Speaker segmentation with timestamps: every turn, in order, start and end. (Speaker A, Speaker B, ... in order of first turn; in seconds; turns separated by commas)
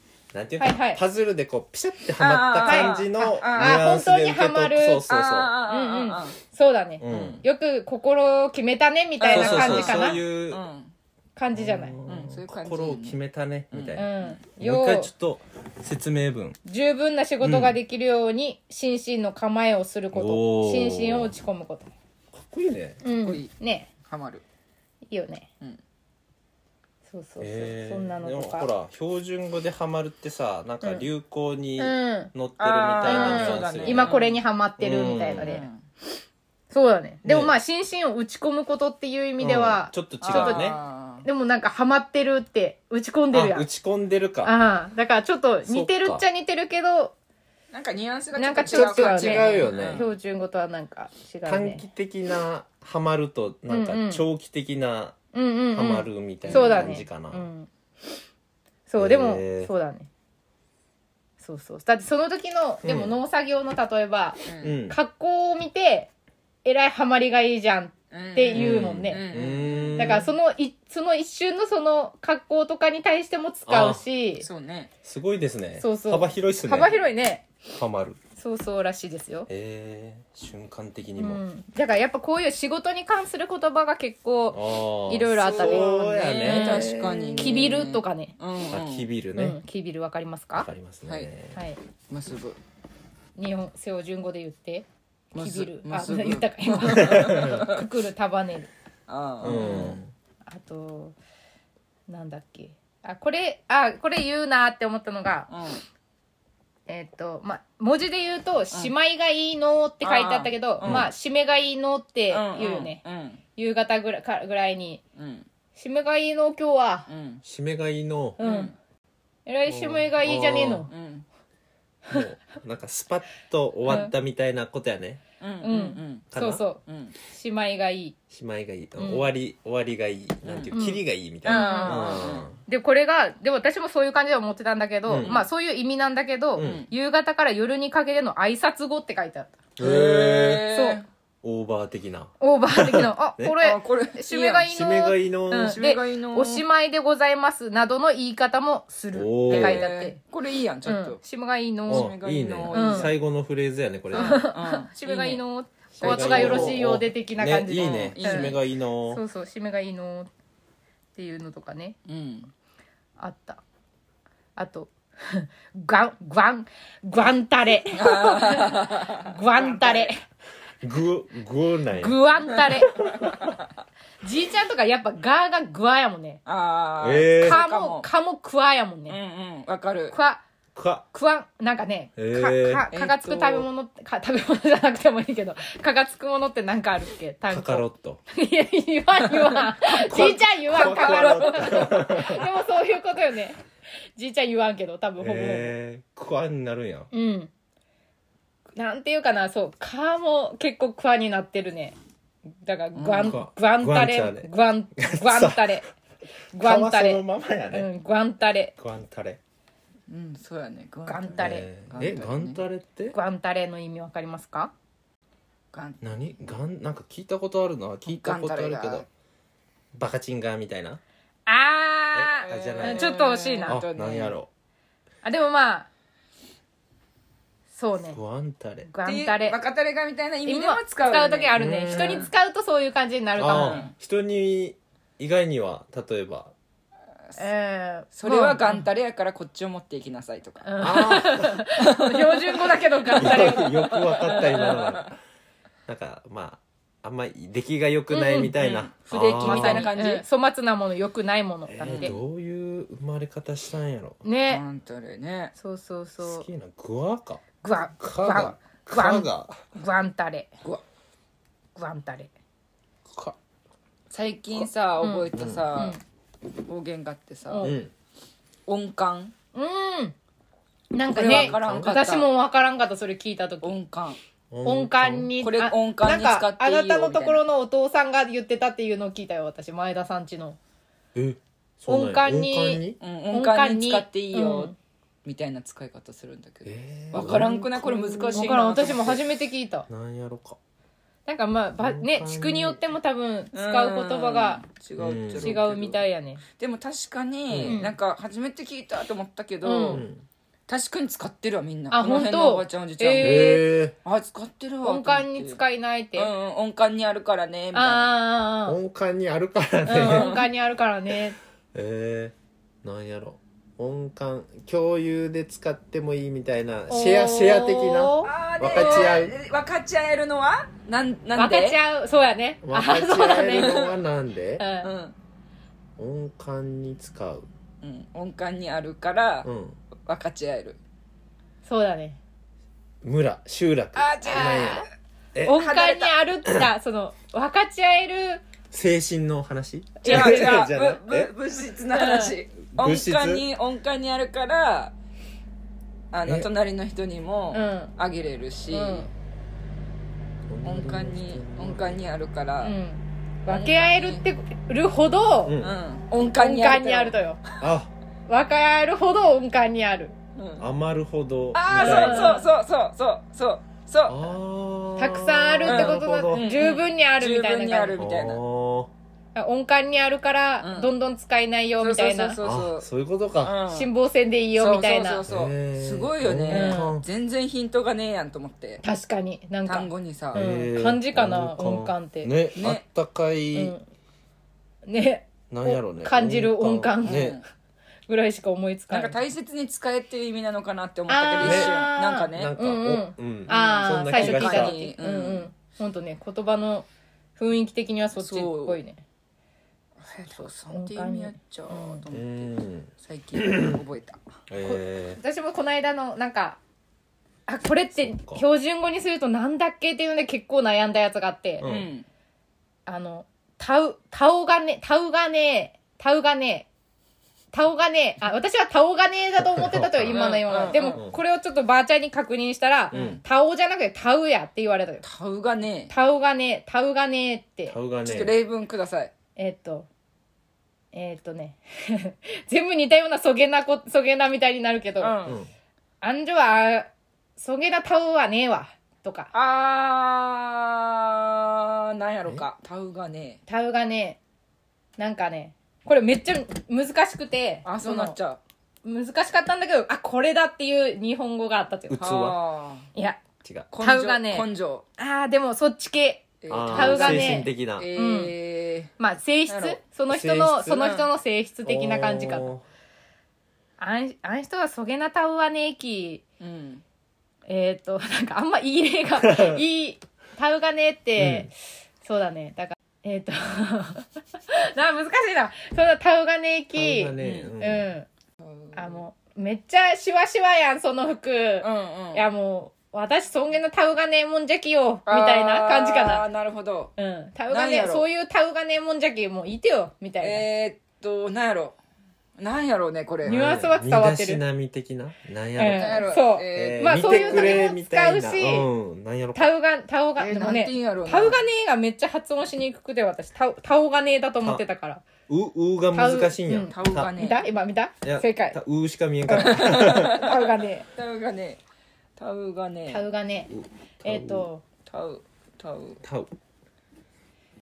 Speaker A: 0.3-5.5, Speaker B: 0.6-1.0, Speaker C: 2.2-3.9, Speaker B: 2.6-5.1, Speaker C: 5.1-6.4, Speaker B: 5.7-10.2, Speaker A: 7.0-7.4, Speaker C: 7.1-7.5, Speaker C: 9.2-10.9, Speaker A: 9.3-10.6, Speaker B: 11.4-12.0, Speaker A: 11.5-16.6, Speaker C: 12.1-13.2, Speaker C: 13.7-14.4, Speaker B: 14.0-15.1, Speaker B: 16.7-21.9, Speaker A: 17.4-17.8, Speaker A: 20.1-21.3, Speaker A: 22.3-23.0, Speaker B: 23.0-23.9, Speaker C: 23.2-24.4, Speaker B: 25.1-25.5, Speaker B: 27.1-28.7, Speaker A: 27.4-34.2, Speaker B: 31.8-32.3, Speaker C: 32.6-34.4, Speaker B: 33.0-35.7, Speaker A: 34.8-35.5, Speaker C: 35.4-35.8, Speaker B: 36.7-43.7, Speaker A: 37.2-37.5, Speaker A: 39.4-40.8, Speaker C: 40.2-41.3, Speaker A: 43.3-44.5, Speaker B: 44.4-47.1, Speaker A: 45.6-46.2, Speaker C: 47.7-50.1, Speaker B: 48.4-51.8, Speaker A: 48.7-50.0, Speaker A: 51.5-55.2, Speaker B: 53.7-54.3, Speaker B: 55.3-57.7, Speaker A: 55.7-57.5, Speaker C: 56.5-56.9, Speaker B: 58.9-60.1, Speaker A: 59.0-59.7, Speaker B: 61.4-66.1, Speaker A: 62.8-63.2, Speaker C: 64.5-64.8, Speaker A: 64.6-65.0, Speaker B: 66.7-69.2, Speaker C: 68.1-70.2, Speaker A: 68.5-70.3, Speaker B: 70.0-74.5, Speaker A: 73.7-74.0, Speaker C: 74.4-74.9, Speaker A: 75.0-77.0, Speaker B: 75.8-77.5, Speaker A: 77.7-78.2, Speaker B: 78.4-79.5, Speaker A: 79.5-81.4, Speaker B: 81.2-88.3, Speaker A: 84.5-87.9, Speaker C: 85.5-89.1, Speaker A: 88.7-89.6, Speaker B: 89.4-90.7, Speaker A: 90.5-91.6, Speaker B: 91.5-91.8, Speaker C: 92.1-92.6, Speaker B: 93.4-98.7, Speaker C: 95.3-97.8, Speaker A: 97.0-97.7, Speaker C: 99.1-100.0, Speaker A: 99.4-100.1, Speaker B: 100.5-101.2, Speaker B: 102.1-105.5, Speaker C: 105.5-105.8, Speaker B: 106.9-113.0, Speaker C: 110.0-111.1, Speaker A: 110.8-111.1, Speaker C: 112.3-113.4, Speaker B: 113.6-115.0, Speaker C: 115.2-115.5, Speaker B: 115.8-117.1, Speaker C: 117.1-117.4, Speaker A: 117.4-118.4, Speaker B: 118.4-118.7, Speaker C: 118.4-118.8, Speaker B: 119.5-120.9, Speaker A: 119.7-120.9, Speaker C: 120.9-121.3, Speaker A: 122.1-125.2, Speaker B: 123.9-124.1, Speaker C: 125.4-126.3, Speaker B: 125.6-128.2, Speaker A: 126.3-126.6, Speaker C: 126.8-127.2, Speaker A: 128.3-132.6, Speaker B: 129.0-129.3, Speaker C: 130.4-130.7, Speaker B: 130.7-139.6, Speaker C: 131.4-132.5, Speaker A: 135.1-135.4, Speaker A: 136.6-136.9, Speaker C: 136.6-136.9, Speaker A: 139.8-140.7, Speaker C: 139.8-141.1, Speaker B: 140.7-141.0, Speaker A: 141.4-143.6, Speaker B: 142.4-150.2, Speaker C: 143.6-144.7, Speaker A: 144.7-145.8, Speaker C: 145.5-146.7, Speaker A: 149.1-149.9, Speaker C: 149.5-151.2, Speaker B: 150.8-152.2, Speaker C: 151.9-153.2, Speaker A: 151.9-154.4, Speaker B: 152.7-153.1, Speaker B: 154.1-158.6, Speaker C: 154.1-155.4, Speaker C: 155.9-156.8, Speaker A: 156.0-159.2, Speaker C: 157.8-158.6, Speaker B: 159.1-160.3, Speaker B: 161.2-162.0, Speaker C: 162.1-162.5, Speaker B: 163.2-163.6, Speaker B: 164.6-170.2, Speaker C: 167.9-170.1, Speaker A: 170.8-172.2, Speaker B: 171.9-173.1, Speaker C: 172.9-173.7, Speaker A: 173.0-173.3, Speaker B: 174.2-176.4, Speaker C: 176.5-178.1, Speaker A: 177.0-177.6, Speaker B: 177.4-179.2, Speaker C: 179.1-180.2, Speaker B: 180.1-180.4, Speaker A: 180.8-181.1, Speaker B: 181.1-193.6, Speaker A: 182.2-182.8, Speaker C: 182.9-183.7, Speaker A: 187.5-188.2, Speaker A: 190.0-192.5, Speaker C: 190.7-192.4, Speaker B: 194.2-195.7, Speaker A: 195.2-197.1, Speaker B: 197.1-197.5, Speaker B: 198.8-201.9, Speaker B: 202.6-205.9, Speaker C: 202.9-203.4, Speaker A: 203.2-205.8, Speaker B: 206.5-208.7, Speaker A: 206.6-207.9, Speaker A: 208.8-209.4, Speaker C: 210.1-212.6, Speaker B: 211.1-211.7, Speaker A: 211.4-213.2, Speaker B: 213.1-214.7, Speaker C: 215.7-216.1, Speaker A: 216.0-219.1, Speaker C: 218.1-219.1, Speaker A: 219.9-221.0, Speaker B: 221.5-223.8, Speaker A: 222.1-223.2, Speaker C: 222.4-224.3, Speaker A: 223.7-224.5, Speaker B: 225.2-225.9, Speaker B: 227.7-228.2, Speaker A: 228.1-228.9, Speaker B: 228.9-229.6, Speaker C: 229.0-232.3, Speaker B: 230.5-233.9, Speaker A: 231.6-232.3, Speaker A: 233.4-236.5, Speaker C: 233.5-233.9, Speaker B: 237.4-238.8, Speaker C: 238.2-241.2, Speaker B: 240.7-244.9, Speaker A: 240.8-241.6, Speaker C: 241.8-245.1, Speaker A: 243.2-245.2, Speaker A: 245.9-249.9, Speaker B: 248.1-248.5, Speaker C: 248.6-250.2, Speaker B: 249.4-252.2, Speaker A: 251.7-254.2, Speaker C: 251.8-252.2, Speaker B: 254.2-254.6, Speaker C: 254.5-255.5, Speaker B: 255.6-256.5, Speaker A: 256.2-257.4, Speaker B: 257.6-260.5, Speaker A: 258.0-259.6, Speaker B: 261.8-262.3, Speaker A: 263.1-263.4, Speaker C: 264.1-266.0, Speaker B: 265.0-266.0, Speaker A: 265.3-265.8, Speaker C: 266.6-267.7, Speaker B: 267.5-267.8, Speaker A: 267.6-267.9, Speaker C: 268.7-269.3, Speaker B: 269.5-270.1, Speaker B: 270.9-273.7, Speaker C: 271.1-272.3, Speaker A: 271.2-272.0, Speaker C: 273.6-274.2, Speaker A: 274.5-275.3, Speaker B: 274.6-280.6, Speaker C: 275.4-277.4, Speaker A: 281.1-283.0, Speaker B: 281.9-284.8, Speaker C: 283.0-284.7, Speaker C: 285.2-289.3, Speaker A: 286.6-288.5, Speaker B: 288.4-289.9, Speaker A: 289.9-290.6, Speaker B: 291.3-294.6, Speaker A: 291.8-292.8, Speaker C: 293.5-296.0, Speaker A: 295.0-295.6, Speaker B: 295.4-296.4, Speaker C: 296.6-300.1, Speaker A: 297.5-297.8, Speaker B: 297.7-297.9, Speaker B: 299.6-300.0, Speaker A: 299.9-300.2, Speaker C: 300.7-305.6, Speaker B: 301.9-303.6, Speaker A: 303.2-303.9, Speaker B: 304.8-306.3, Speaker C: 306.2-308.1, Speaker B: 307.7-308.8, Speaker A: 308.7-310.4, Speaker B: 309.9-311.4, Speaker C: 310.0-310.5, Speaker A: 311.7-319.4, Speaker B: 316.9-319.2, Speaker C: 318.2-321.8, Speaker B: 321.4-323.9, Speaker A: 322.6-324.6, Speaker C: 323.5-323.9, Speaker B: 324.6-324.9, Speaker C: 324.8-325.1, Speaker A: 326.0-327.5, Speaker C: 327.8-329.5, Speaker A: 329.4-329.8, Speaker C: 330.1-330.8, Speaker B: 331.6-332.2, Speaker A: 333.0-335.6, Speaker C: 333.9-334.9, Speaker B: 334.2-334.9, Speaker B: 335.4-338.4, Speaker C: 335.5-336.2, Speaker A: 338.7-341.3, Speaker B: 340.0-340.7, Speaker C: 340.0-344.9, Speaker B: 341.9-342.4, Speaker A: 342.7-343.4, Speaker C: 346.1-349.1, Speaker B: 347.5-347.9, Speaker B: 348.7-349.1, Speaker A: 350.5-352.0, Speaker C: 350.6-352.8, Speaker B: 352.6-355.6, Speaker C: 353.5-354.2, Speaker A: 355.4-355.8, Speaker C: 355.6-357.2, Speaker B: 356.4-357.4, Speaker A: 357.6-357.9, Speaker B: 358.3-360.1, Speaker C: 360.4-360.7, Speaker A: 360.6-362.4, Speaker C: 361.5-364.3, Speaker B: 361.7-362.5, Speaker A: 364.1-366.6, Speaker B: 365.0-368.0, Speaker C: 365.7-368.4, Speaker A: 368.0-368.9, Speaker B: 369.4-372.4, Speaker C: 370.6-370.9, Speaker C: 371.8-372.9, Speaker A: 372.4-373.6, Speaker C: 373.4-373.9, Speaker B: 373.7-375.2, Speaker C: 374.6-378.8, Speaker A: 375.3-377.1, Speaker B: 376.5-377.0, Speaker B: 378.8-382.3, Speaker C: 379.7-380.4, Speaker A: 380.3-383.7, Speaker C: 382.6-382.8, Speaker B: 383.5-383.8, Speaker B: 384.9-387.4, Speaker A: 385.5-387.4, Speaker C: 387.0-387.4, Speaker B: 388.1-389.2, Speaker C: 388.9-392.6, Speaker B: 391.1-399.0, Speaker A: 391.4-391.8, Speaker A: 392.3-394.8, Speaker C: 393.5-395.5, Speaker C: 398.2-398.8, Speaker C: 400.0-404.2, Speaker B: 400.2-402.0, Speaker A: 402.1-403.8, Speaker A: 404.5-405.2, Speaker B: 404.6-406.6, Speaker B: 407.5-411.6, Speaker A: 408.0-408.4, Speaker A: 411.6-411.9, Speaker C: 411.6-412.1, Speaker B: 412.9-416.7, Speaker B: 417.5-425.0, Speaker A: 419.4-420.3, Speaker C: 420.1-421.0, Speaker A: 420.9-421.2, Speaker C: 422.9-423.2, Speaker A: 422.9-423.2, Speaker C: 425.0-425.9, Speaker B: 425.9-427.8, Speaker A: 427.7-428.4, Speaker C: 428.0-429.1, Speaker B: 429.4-429.9, Speaker B: 430.9-435.1, Speaker C: 435.0-435.4, Speaker A: 435.2-435.5, Speaker B: 436.0-439.3, Speaker C: 439.3-443.4, Speaker B: 443.5-444.2, Speaker B: 445.0-448.2, Speaker C: 447.6-448.4, Speaker B: 448.9-452.3, Speaker A: 451.9-452.4, Speaker C: 452.0-452.9, Speaker B: 452.9-453.2, Speaker A: 453.4-453.7, Speaker C: 453.7-454.9, Speaker B: 453.8-458.3, Speaker C: 456.4-458.9, Speaker A: 456.5-457.9, Speaker B: 459.0-462.5, Speaker C: 459.5-459.8, Speaker A: 460.1-460.9, Speaker C: 460.8-461.1, Speaker A: 461.7-462.6, Speaker B: 463.8-466.2, Speaker C: 466.4-466.8, Speaker B: 467.5-471.5, Speaker A: 469.2-469.6, Speaker A: 471.2-471.5, Speaker B: 472.0-478.1, Speaker A: 476.7-477.9, Speaker C: 477.2-477.5, Speaker C: 478.4-479.0, Speaker B: 478.8-486.2, Speaker C: 481.6-482.2, Speaker C: 485.1-486.9, Speaker B: 487.0-490.5, Speaker C: 487.5-488.1, Speaker C: 490.2-491.8, Speaker C: 492.4-493.5, Speaker B: 493.2-494.4, Speaker A: 493.3-499.5, Speaker B: 495.6-498.7, Speaker C: 495.7-497.7, Speaker B: 499.4-505.0, Speaker C: 500.2-501.4, Speaker A: 505.3-507.1, Speaker B: 505.9-508.6, Speaker C: 506.7-507.4, Speaker A: 508.0-510.2, Speaker B: 509.3-510.9, Speaker C: 509.3-511.6, Speaker C: 512.2-513.1, Speaker B: 512.9-513.5, Speaker A: 513.5-514.5, Speaker B: 514.0-514.6, Speaker C: 514.9-516.0, Speaker A: 516.0-516.3